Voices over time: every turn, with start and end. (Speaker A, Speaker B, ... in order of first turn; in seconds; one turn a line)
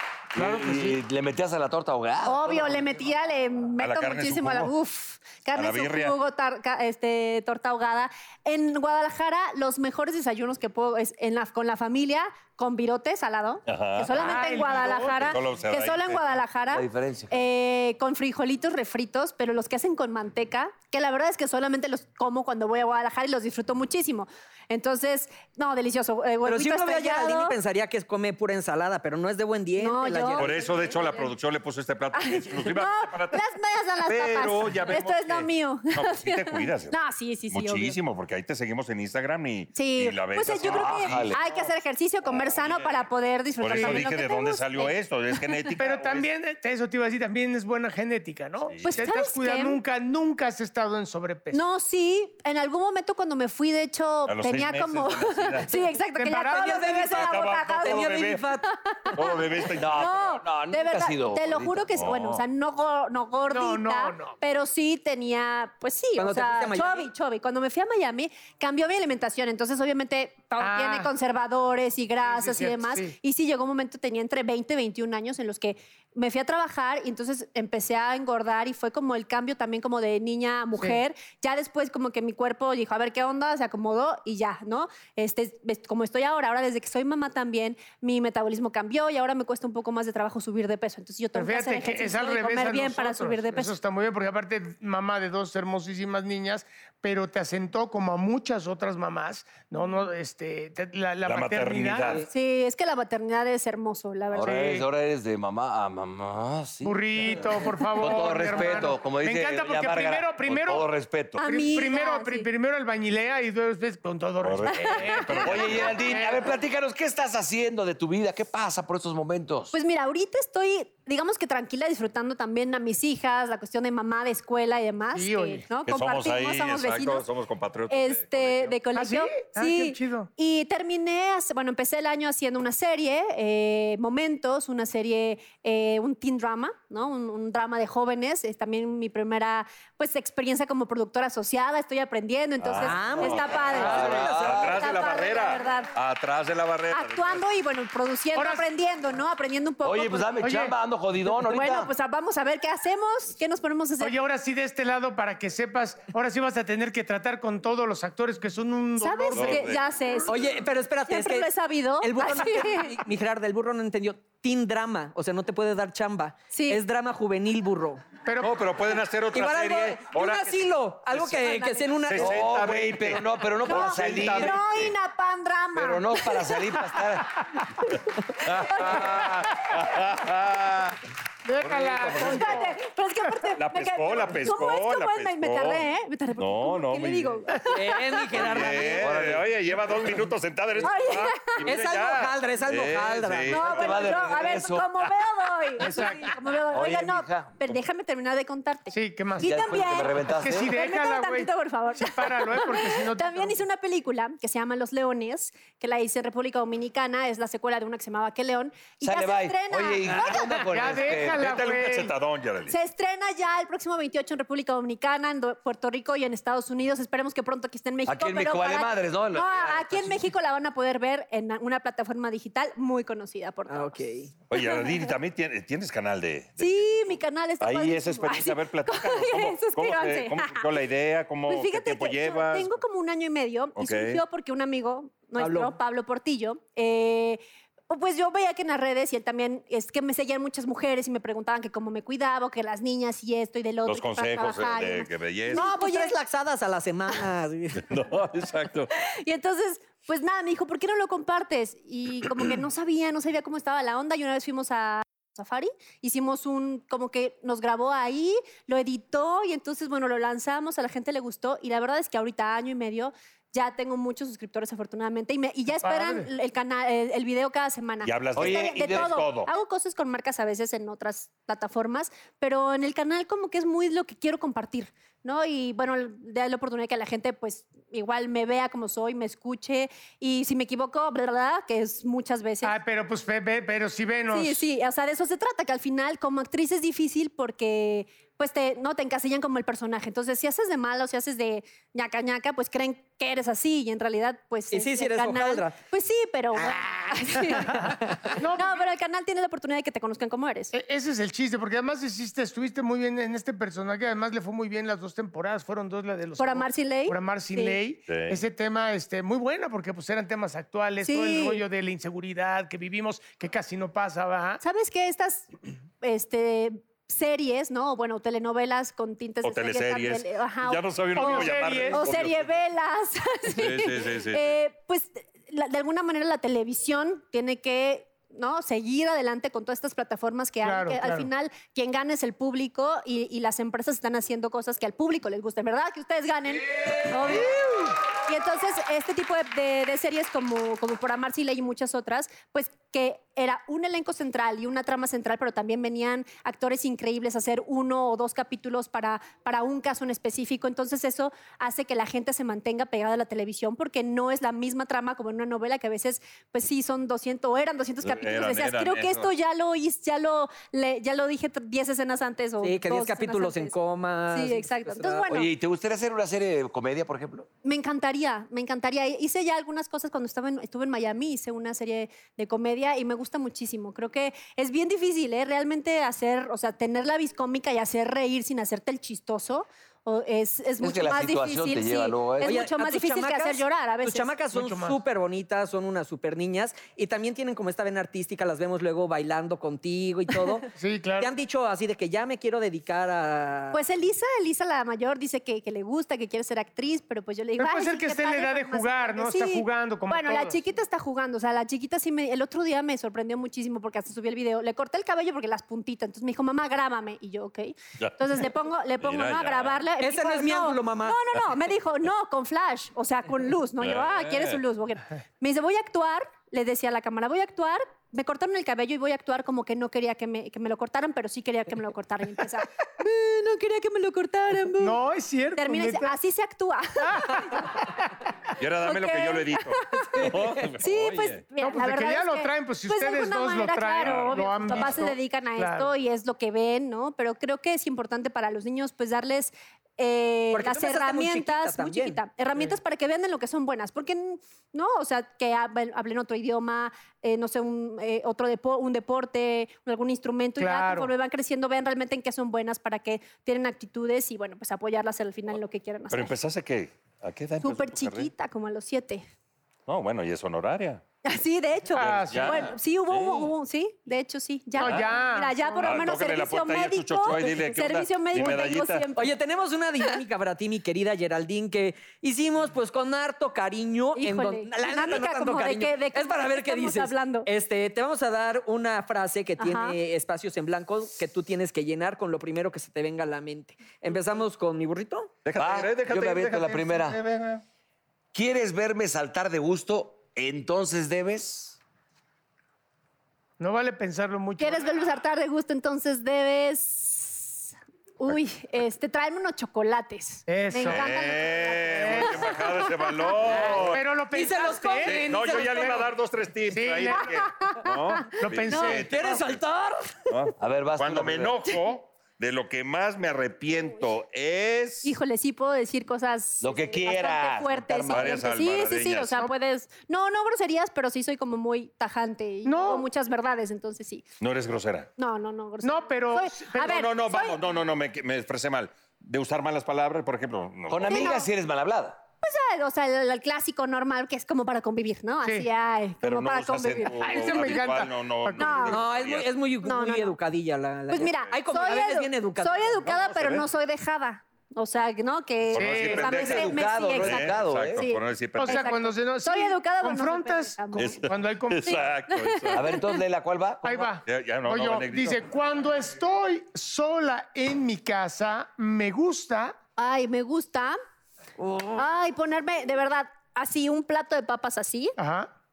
Speaker A: 0.3-2.9
Speaker B: 0.3-1.0
Speaker C: 2.2-27.6
Speaker D: 3.8-4.7
Speaker D: 5.5-6.2
Speaker D: 13.7-16.2
Speaker B: 14.2-15.4
Speaker A: 16.7-17.5
Speaker E: 26.4-30.6
Speaker C: 29.8-31.3
Speaker D: 30.4-33.4
Speaker C: 32.1-38.0
Speaker D: 34.1-37.0
Speaker D: 37.5-41.4
Speaker C: 39.8-45.8
Speaker A: 40.7-41.4
Speaker D: 42.4-43.0
Speaker D: 43.6-46.3
Speaker B: 43.7-44.1
Speaker B: 45.8-51.6
Speaker D: 48.7-49.1
Speaker C: 48.9-49.8
Speaker C: 51.5-58.1
Speaker D: 54.3-55.7
Speaker B: 56.2-57.0
Speaker E: 56.5-58.7
Speaker D: 57.1-58.4
Speaker C: 58.7-93.8
Speaker D: 59.1-60.2
Speaker A: 59.8-61.9
Speaker D: 62.0-62.4
Speaker B: 63.5-64.4
Speaker E: 66.2-67.1
Speaker B: 70.6-71.1
Speaker B: 72.2-73.2
Speaker B: 91.3-102.2
Speaker D: 101.2-102.3
Speaker C: 102.3-104.8
Speaker A: 104.3-111.4
Speaker B: 104.4-104.8
Speaker B: 106.8-116.5
Speaker C: 111.4-112.5
Speaker D: 114.4-116.0
Speaker C: 114.7-116.1
Speaker A: 115.4-119.7
Speaker C: 119.7-127.3
Speaker B: 125.1-125.7
Speaker D: 125.9-128.8
Speaker C: 127.9-145.9
Speaker B: 128.9-130.3
Speaker D: 142.6-147.4
Speaker E: 142.8-143.4
Speaker A: 143.7-144.8
Speaker C: 146.9-150.4
Speaker B: 148.3-148.6
Speaker A: 149.8-151.9
Speaker B: 150.4-150.8
Speaker C: 151.3-154.2
Speaker B: 154.0-159.7
Speaker C: 159.0-163.0
Speaker D: 159.3-159.8
Speaker E: 160.3-161.5
Speaker E: 162.0-168.0
Speaker C: 166.5-166.8
Speaker B: 168.3-168.6
Speaker D: 168.4-171.4
Speaker E: 169.3-172.4
Speaker C: 171.4-171.8
Speaker D: 172.1-174.9
Speaker A: 172.2-174.6
Speaker C: 173.7-176.8
Speaker A: 175.8-177.5
Speaker D: 178.4-181.0
Speaker C: 178.7-179.1
Speaker B: 181.4-182.8
Speaker D: 181.6-182.5
Speaker C: 182.1-188.7
Speaker D: 183.6-185.8
Speaker D: 186.4-187.4
Speaker E: 187.7-189.1
Speaker D: 188.3-194.2
Speaker A: 189.0-190.2
Speaker C: 190.8-191.7
Speaker E: 191.6-193.6
Speaker C: 193.5-210.7
Speaker A: 193.6-194.9
Speaker B: 195.8-196.3
Speaker A: 196.7-197.7
Speaker B: 198.9-199.6
Speaker A: 199.4-200.7
Speaker B: 200.3-203.6
Speaker A: 209.0-211.5
Speaker B: 210.6-212.1
Speaker D: 211.2-212.8
Speaker C: 212.7-225.1
Speaker A: 218.1-220.3
Speaker E: 223.7-224.3
Speaker D: 224.5-232.7
Speaker C: 226.6-230.7
Speaker C: 231.5-246.2
Speaker D: 233.8-234.2
Speaker E: 235.4-235.8
Speaker D: 243.8-245.7
Speaker E: 245.5-248.0
Speaker D: 247.8-248.9
Speaker C: 249.0-282.8
Speaker B: 265.8-266.3
Speaker D: 268.0-269.5
Speaker A: 268.4-269.3
Speaker B: 282.6-284.6
Speaker C: 284.3-300.7
Speaker E: 294.7-295.8
Speaker B: 297.8-298.9
Speaker B: 300.7-314.6
Speaker C: 306.4-307.8
Speaker D: 308.1-308.4
Speaker C: 311.0-311.6
Speaker C: 314.6-315.5
Speaker C: 316.0-363.8
Speaker D: 319.4-322.5
Speaker B: 321.1-322.1
Speaker D: 323.5-324.5
Speaker B: 330.6-331.3
Speaker D: 358.0-359.3
Speaker E: 362.6-365.2
Speaker C: 364.3-365.5
Speaker A: 365.3-367.5
Speaker C: 367.6-384.3
Speaker A: 380.8-382.6
Speaker E: 382.4-393.8
Speaker B: 384.5-385.0
Speaker B: 390.8-391.3
Speaker C: 393.7-425.0
Speaker B: 397.6-400.6
Speaker D: 408.0-408.4
Speaker D: 409.0-409.8
Speaker E: 410.0-411.2
Speaker D: 413.8-414.6
Speaker B: 424.8-426.1
Speaker C: 425.6-427.7
Speaker B: 427.1-427.9
Speaker D: 428.6-431.4
Speaker C: 428.8-456.4
Speaker B: 431.6-435.9
Speaker D: 434.0-434.8
Speaker E: 440.5-442.2
Speaker B: 450.6-451.1
Speaker D: 456.1-458.3
Speaker C: 457.6-459.2
Speaker D: 459.9-461.0
Speaker C: 461.2-469.4
Speaker B: 461.9-462.7
Speaker D: 462.0-463.5
Speaker D: 464.8-465.1
Speaker B: 464.8-465.8
Speaker D: 465.8-469.1
Speaker E: 469.2-485.3
Speaker C: 474.2-477.5
Speaker C: 479.6-480.0
Speaker D: 485.4-487.6
Speaker A: 485.6-487.2
Speaker A: 488.3-491.8
Speaker B: 493.6-494.9
Speaker C: 494.6-503.4
Speaker B: 500.5-501.1
Speaker D: 500.9-504.0
Speaker B: 501.9-502.5
Speaker E: 503.5-506.1
Speaker B: 503.8-505.8
Speaker D: 505.0-509.6
Speaker B: 506.7-507.4
Speaker C: 507.1-509.0
Speaker B: 508.4-509.1
Speaker E: 508.7-510.3
Speaker D: 510.3-515.1
Speaker A: 510.6-511.6
Speaker C: 515.0-524.3
Speaker A: 516.6-518.4
Speaker D: 518.1-519.4
Speaker B: 522.7-523.0
Speaker D: 524.4-525.1
Speaker C: 525.2-527.6
Speaker B: 525.8-527.0
Speaker D: 526.8-531.4
Speaker A: 530.9-532.2
Speaker C: 531.1-531.5
Speaker C: 532.4-537.8
Speaker D: 536.2-539.5
Speaker B: 537.1-538.9
Speaker C: 538.6-539.0
Speaker E: 538.9-543.0
Speaker C: 539.8-540.4
Speaker C: 541.1-551.2
Speaker D: 543.0-543.7
Speaker D: 545.7-548.9
Speaker B: 545.8-546.4
Speaker A: 546.2-548.0
Speaker B: 548.6-552.0
Speaker D: 551.0-553.0
Speaker C: 551.9-553.1
Speaker A: 552.7-554.1
Speaker B: 553.8-559.8
Speaker D: 554.2-555.4
Speaker C: 560.0-561.0
Speaker C: 562.0-565.1
Speaker B: 565.2-565.5